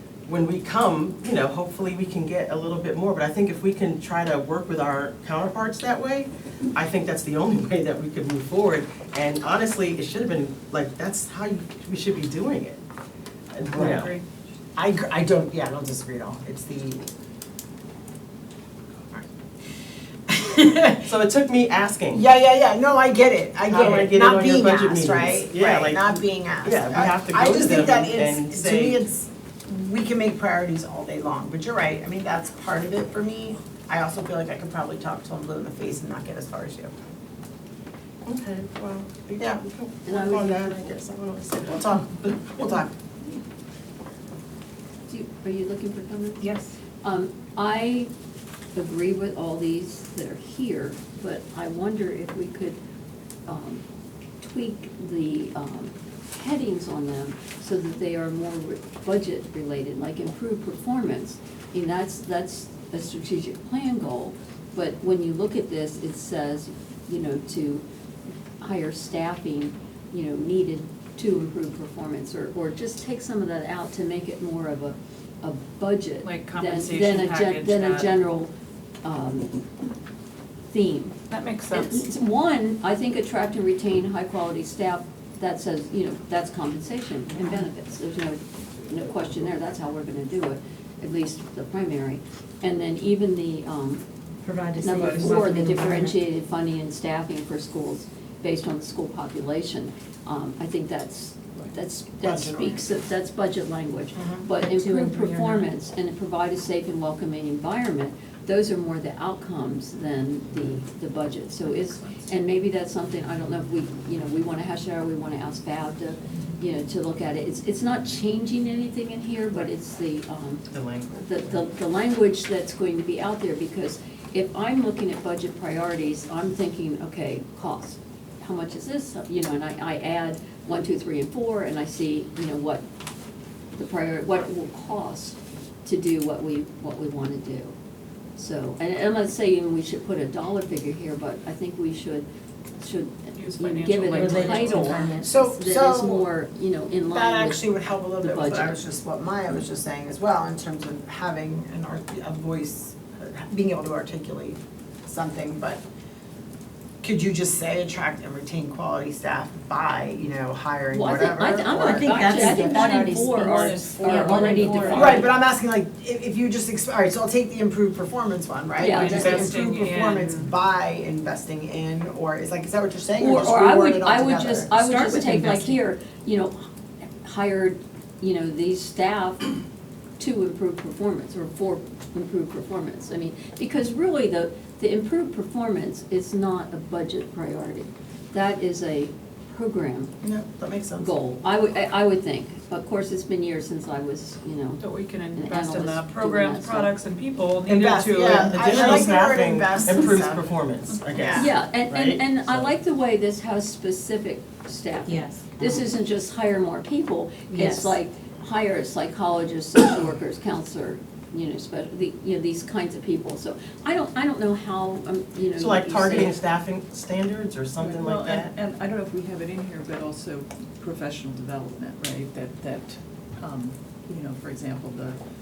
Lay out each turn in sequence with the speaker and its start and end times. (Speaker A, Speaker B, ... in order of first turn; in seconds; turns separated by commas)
Speaker A: 0.3-12.8, Speaker A: 13.5-14.2, Speaker B: 13.7-14.1, Speaker C: 13.9-14.2, Speaker B: 14.8-17.1, Speaker B: 20.3-21.1, Speaker A: 21.0-22.2, Speaker B: 22.1-36.9, Speaker A: 23.7-29.0, Speaker A: 38.2-42.7, Speaker D: 40.0-41.0, Speaker B: 42.5-42.9, Speaker D: 45.1-48.1, Speaker E: 46.4-46.7, Speaker D: 48.7-52.8, Speaker D: 53.5-53.8, Speaker D: 54.4-67.8, Speaker D: 68.6-78.5, Speaker C: 76.2-78.1, Speaker D: 79.0-79.6, Speaker D: 80.7-81.2, Speaker C: 81.3-82.0, Speaker D: 81.7-94.0, Speaker E: 94.4-96.2, Speaker D: 94.8-120.7, Speaker B: 102.2-102.8, Speaker B: 104.2-104.5, Speaker E: 104.5-105.7, Speaker A: 120.7-121.6, Speaker D: 121.2-132.8, Speaker D: 133.8-137.7, Speaker D: 138.4-142.2, Speaker D: 142.8-147.7, Speaker C: 143.3-144.8, Speaker E: 144.1-145.4, Speaker B: 145.2-146.2, Speaker B: 147.1-155.8, Speaker D: 148.2-148.8, Speaker B: 157.0-162.6, Speaker D: 160.9-165.3, Speaker E: 161.7-165.3, Speaker C: 163.6-165.0, Speaker F: 164.8-165.1, Speaker B: 164.9-174.8, Speaker D: 168.8-169.4, Speaker C: 168.9-170.5, Speaker D: 173.2-176.6, Speaker E: 174.8-175.8, Speaker D: 177.2-179.5, Speaker D: 180.2-190.1, Speaker B: 190.2-191.1, Speaker D: 191.0-194.8, Speaker C: 194.8-199.1, Speaker D: 195.3-196.9, Speaker B: 197.7-200.5, Speaker A: 198.3-202.7, Speaker C: 200.9-201.2, Speaker B: 201.1-201.5, Speaker D: 201.3-216.3, Speaker E: 205.1-205.9, Speaker E: 207.5-208.0, Speaker A: 215.6-218.5, Speaker F: 217.8-225.2